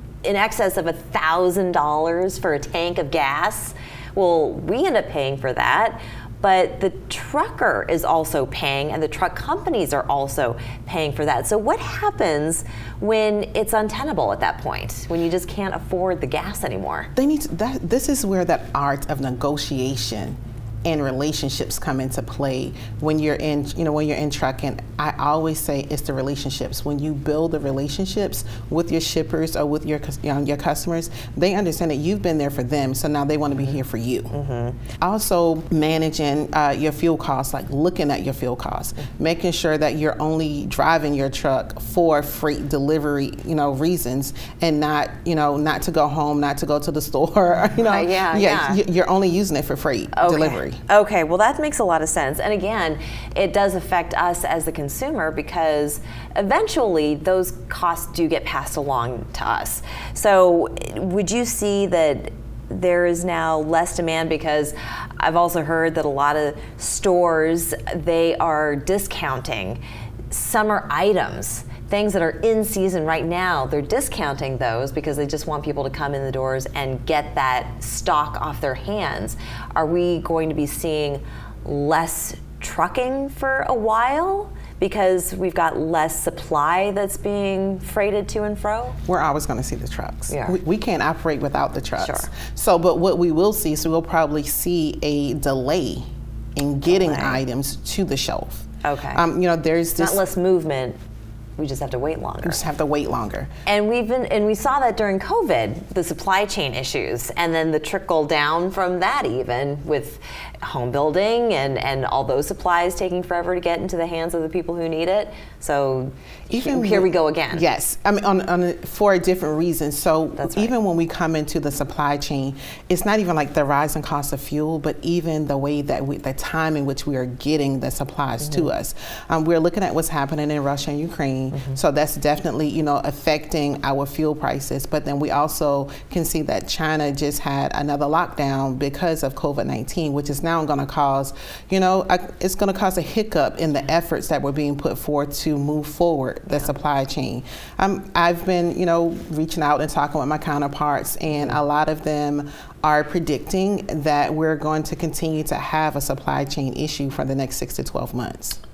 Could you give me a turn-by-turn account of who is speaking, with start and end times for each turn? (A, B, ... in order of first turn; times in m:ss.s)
0:00.2-0:17.1 A
0:17.2-0:34.3 B
0:34.3-0:34.8 A
0:35.0-0:50.8 B
0:47.8-0:48.8 A
0:50.1-1:09.8 A
1:10.3-1:29.0 A
1:29.1-1:40.2 B
1:30.3-1:30.6 A
1:32.0-1:32.3 A
1:36.8-1:37.4 A
1:38.8-1:39.2 A
1:40.0-1:41.0 A
1:41.6-1:42.6 A
1:42.4-1:43.5 B
1:43.7-1:57.6 A
1:56.5-2:38.6 B
2:00.4-2:00.8 A
2:11.5-2:11.8 A
2:31.3-2:31.6 A